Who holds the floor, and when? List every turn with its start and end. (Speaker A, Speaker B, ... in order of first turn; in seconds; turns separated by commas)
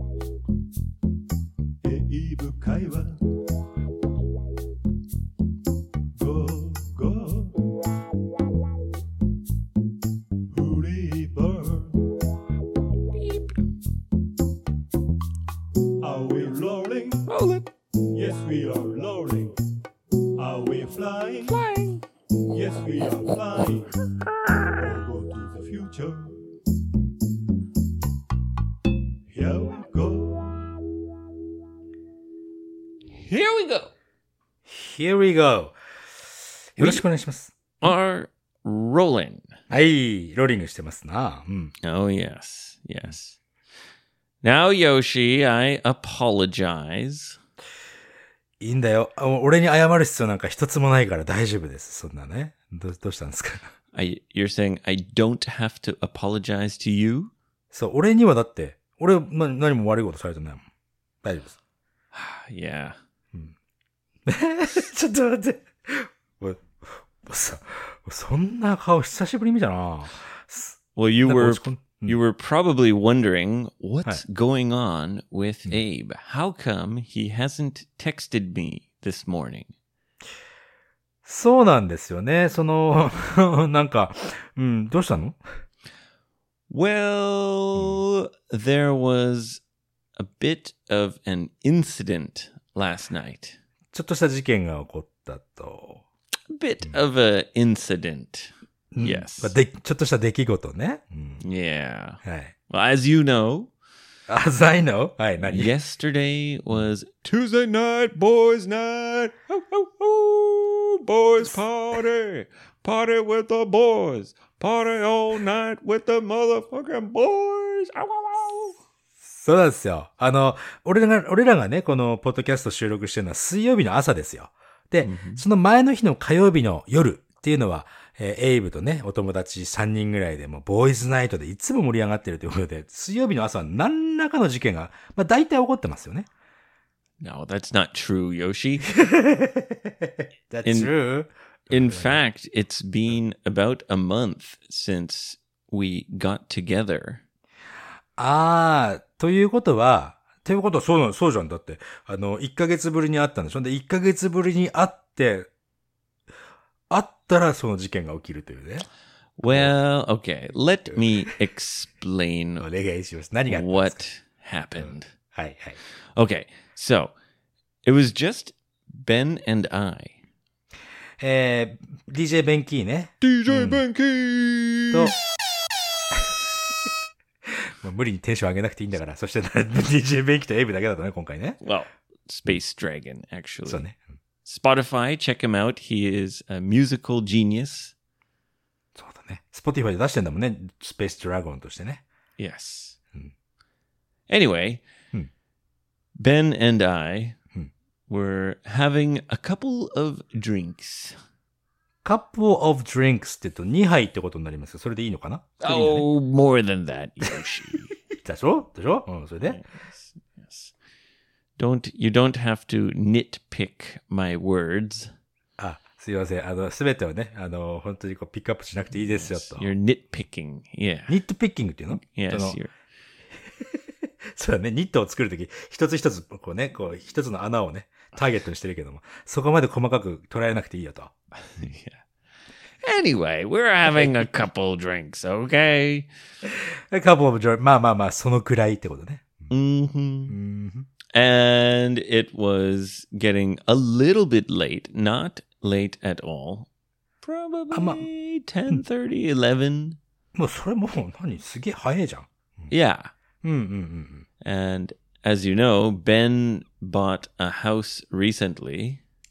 Speaker A: 1.8-3.2, Speaker A: 6.2-7.6, Speaker A: 10.5-12.2, Speaker A: 16.0-17.3, Speaker B: 17.3-17.7, Speaker A: 18.1-19.5, Speaker A: 20.4-21.6, Speaker B: 21.5-22.0, Speaker A: 22.5-23.9, Speaker A: 24.7-26.5, Speaker A: 29.3-30.7, Speaker B: 33.1-33.9, Speaker C: 34.7-35.8, Speaker C: 36.8-37.5, Speaker B: 36.8-37.1, Speaker B: 37.8-39.5, Speaker C: 39.7-41.7, Speaker B: 41.9-43.4, Speaker B: 44.4-47.4, Speaker C: 48.6-53.7, Speaker B: 53.9-57.3, Speaker C: 57.7-60.7, Speaker C: 61.2-61.6, Speaker B: 62.1-63.0, Speaker C: 64.2-72.2, Speaker B: 71.0-79.7, Speaker C: 81.2-85.4, Speaker B: 86.7-89.6, Speaker C: 87.8-88.0, Speaker B: 90.2-93.6, Speaker C: 93.9-96.0, Speaker B: 96.5-99.5, Speaker C: 98.9-101.4, Speaker B: 101.4-103.7, Speaker C: 102.2-102.5, Speaker C: 104.3-105.7, Speaker B: 105.5-118.8, Speaker C: 119.2-136.3, Speaker B: 125.0-125.4, Speaker B: 137.2-138.9, Speaker C: 138.9-142.2, Speaker B: 140.7-140.9, Speaker B: 141.7-147.2, Speaker C: 148.2-155.5, Speaker C: 156.9-158.9, Speaker B: 159.4-162.7, Speaker C: 159.4-159.8, Speaker C: 160.9-161.2, Speaker C: 162.6-164.0, Speaker B: 163.5-165.1, Speaker C: 164.8-165.8, Speaker B: 166.2-167.1, Speaker B: 167.8-170.2, Speaker C: 171.2-173.8, Speaker B: 173.2-175.1, Speaker C: 174.9-175.2, Speaker C: 177.5-181.6, Speaker B: 181.6-183.9, Speaker C: 183.7-184.1, Speaker B: 184.4-187.9, Speaker C: 188.9-192.0, Speaker B: 192.4-193.0, Speaker B: 194.3-194.8, Speaker B: 196.2-197.4, Speaker B: 198.1-201.2, Speaker C: 202.0-206.1, Speaker B: 205.6-207.9, Speaker C: 208.1-209.6, Speaker B: 209.4-210.7, Speaker B: 211.6-215.1, Speaker C: 215.6-219.7, Speaker B: 219.1-221.2, Speaker C: 221.1-222.6, Speaker B: 221.9-222.7, Speaker C: 224.3-231.7, Speaker B: 231.4-232.0, Speaker B: 232.8-236.1, Speaker C: 233.9-234.3, Speaker C: 236.5-239.5, Speaker B: 239.5-240.4, Speaker C: 240.3-240.9, Speaker B: 241.1-246.7, Speaker B: 247.2-250.0, Speaker C: 247.7-248.1, Speaker C: 250.3-252.7, Speaker B: 252.7-253.1, Speaker C: 253.4-254.2, Speaker B: 254.4-259.0